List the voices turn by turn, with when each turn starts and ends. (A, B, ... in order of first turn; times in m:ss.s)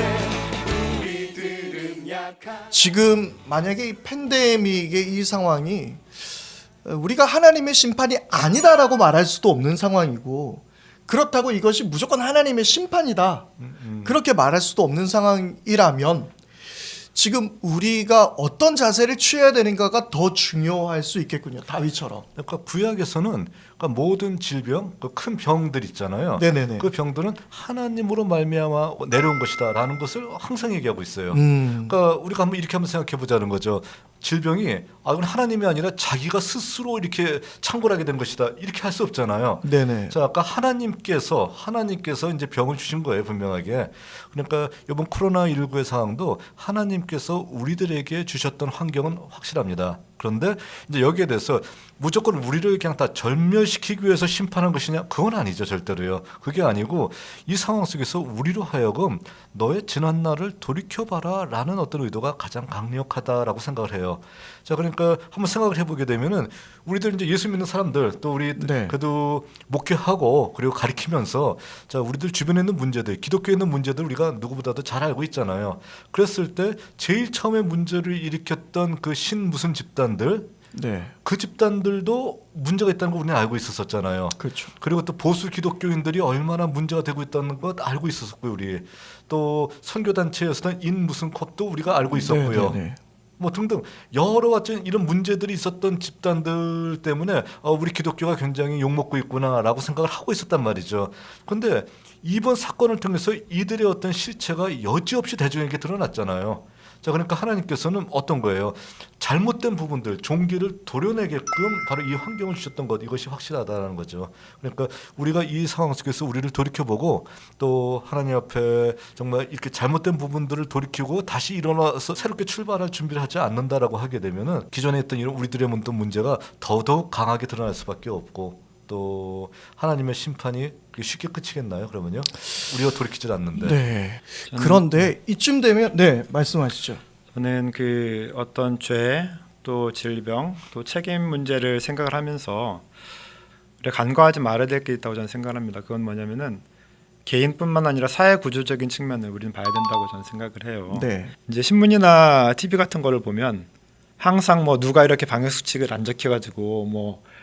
0:02.7-0:06.2 A
0:06.8-0:13.5 A
0:13.6-0:14.2 B
0:14.0-0:16.3 A
0:17.1-0:22.2 A
0:22.4-1:20.5 B
0:26.4-0:26.9 A
0:31.3-0:32.0 A
0:39.6-0:40.2 A
1:08.6-1:09.0 A
1:20.7-1:21.1 A
1:21.2-1:32.8 B
1:24.4-1:24.7 A
1:32.1-1:33.0 A
1:33.4-2:13.8 B
2:13.6-2:17.0 A
2:14.5-2:15.1 C
2:17.3-2:22.8 C
2:23.8-2:26.6 C
2:27.2-2:33.7 C
2:30.9-2:31.3 A
2:34.2-2:37.2 C